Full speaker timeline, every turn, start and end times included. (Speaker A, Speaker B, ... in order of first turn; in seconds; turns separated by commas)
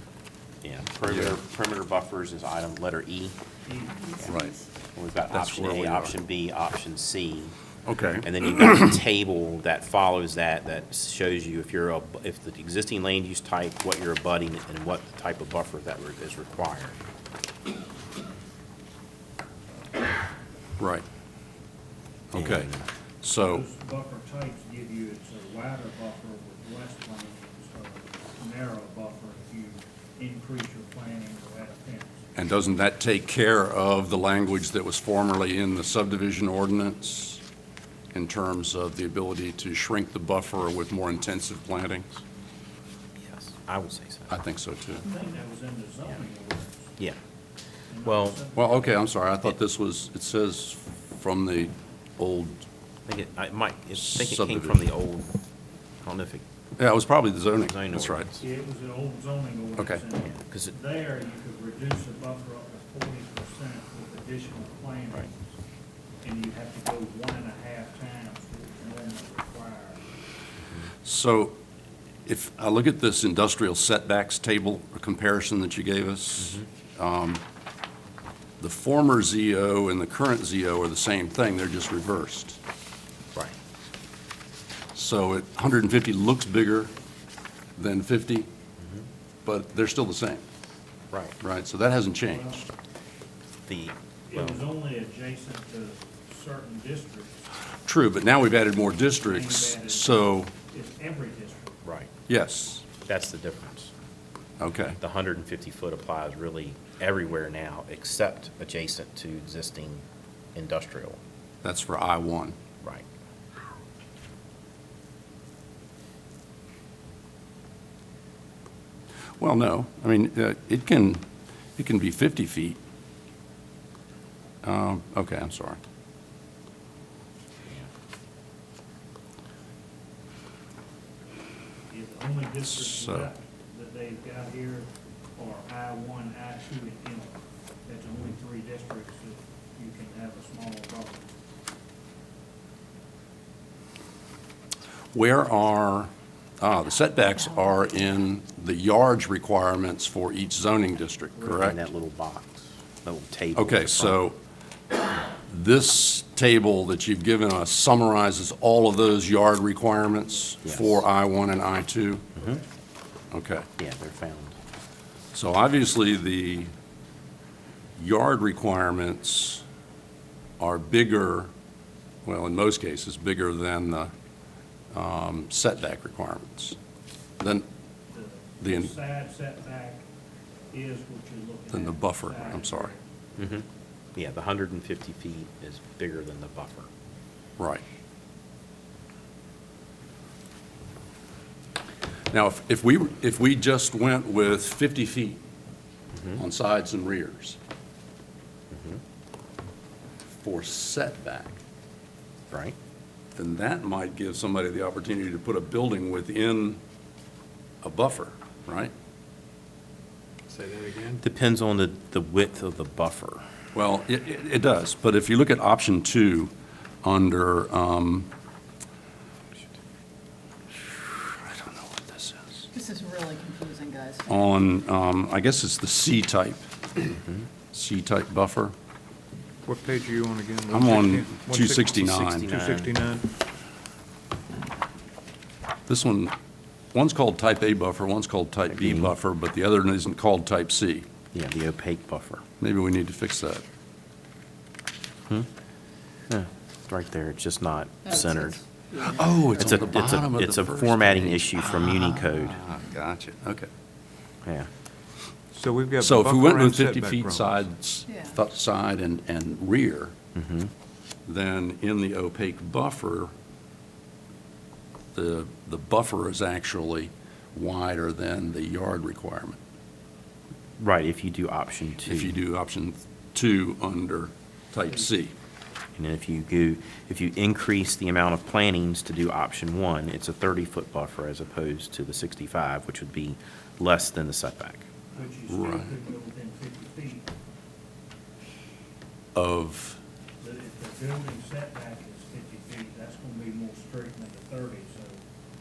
Speaker A: 0.6-3.4, Speaker B: 1.1-1.4, Speaker C: 3.7-4.2, Speaker B: 4.2-4.6, Speaker A: 5.0-7.5, Speaker B: 5.3-6.2, Speaker B: 7.9-8.9, Speaker A: 8.2-17.0, Speaker B: 20.8-21.0, Speaker B: 22.3-23.6, Speaker A: 22.4-22.8, Speaker C: 23.4-32.2, Speaker B: 32.4-37.4, Speaker B: 38.1-42.2, Speaker A: 43.2-44.4, Speaker B: 44.3-45.1, Speaker C: 45.0-47.0, Speaker C: 47.9-49.0, Speaker A: 48.0-48.4, Speaker B: 48.6-52.6, Speaker A: 53.1-55.5, Speaker B: 54.0-54.9, Speaker A: 56.0-56.4, Speaker B: 56.8-58.3, Speaker A: 57.6-58.4, Speaker C: 58.4-65.5, Speaker A: 60.4-60.8, Speaker C: 66.2-70.0, Speaker B: 71.0-71.6, Speaker B: 72.3-77.4, Speaker B: 78.6-82.6, Speaker B: 84.9-86.9, Speaker B: 87.8-88.5, Speaker B: 89.5-90.4, Speaker A: 91.1-91.4, Speaker B: 91.4-92.7, Speaker C: 92.3-92.6, Speaker A: 93.7-94.7, Speaker C: 94.3-97.5, Speaker B: 97.8-100.5, Speaker C: 99.2-101.8, Speaker A: 101.8-102.1, Speaker B: 102.3-102.9, Speaker A: 103.0-103.9, Speaker B: 104.6-105.0, Speaker A: 105.0-110.0, Speaker A: 110.5-111.2, Speaker B: 111.6-112.6, Speaker B: 119.4-121.3, Speaker B: 121.8-122.8, Speaker B: 124.6-125.8, Speaker C: 131.9-141.3, Speaker B: 132.7-133.3, Speaker B: 145.1-151.8, Speaker C: 151.3-151.7, Speaker A: 151.5-154.2, Speaker B: 153.6-154.4, Speaker B: 155.5-162.3, Speaker A: 160.6-161.1, Speaker B: 163.3-163.7, Speaker A: 163.8-164.6, Speaker B: 165.3-166.7, Speaker B: 168.0-169.6, Speaker B: 170.6-171.5, Speaker B: 172.2-174.1, Speaker B: 174.9-176.8, Speaker B: 177.4-177.7, Speaker C: 178.1-180.0, Speaker B: 178.6-178.9, Speaker C: 180.7-183.0, Speaker B: 181.7-182.9, Speaker A: 183.4-186.9, Speaker B: 187.6-187.8, Speaker B: 192.3-195.4, Speaker B: 196.4-197.6, Speaker A: 198.7-199.0, Speaker B: 200.3-201.6, Speaker B: 203.4-206.8, Speaker B: 207.8-208.9, Speaker D: 210.5-211.2, Speaker A: 211.2-213.4, Speaker B: 213.7-216.5, Speaker B: 217.0-218.3, Speaker B: 220.8-222.7, Speaker E: 222.7-224.2, Speaker B: 224.3-227.1, Speaker B: 227.7-228.7, Speaker D: 229.6-233.3, Speaker B: 230.7-232.5, Speaker A: 231.9-232.9, Speaker B: 235.9-236.3, Speaker B: 236.9-241.1, Speaker A: 238.7-239.1, Speaker A: 241.3-242.4, Speaker B: 242.6-243.6, Speaker A: 246.3-248.6, Speaker E: 248.1-249.5, Speaker B: 249.0-251.7, Speaker A: 249.6-252.6, Speaker B: 252.4-253.7, Speaker D: 255.5-257.6, Speaker B: 256.0-260.1, Speaker A: 260.4-260.7, Speaker B: 261.3-263.3, Speaker B: 265.1-269.6, Speaker A: 270.8-272.4, Speaker B: 272.1-275.4, Speaker A: 276.0-284.9, Speaker C: 285.1-287.3, Speaker B: 285.5-285.9, Speaker B: 289.4-290.0, Speaker C: 290.4-295.2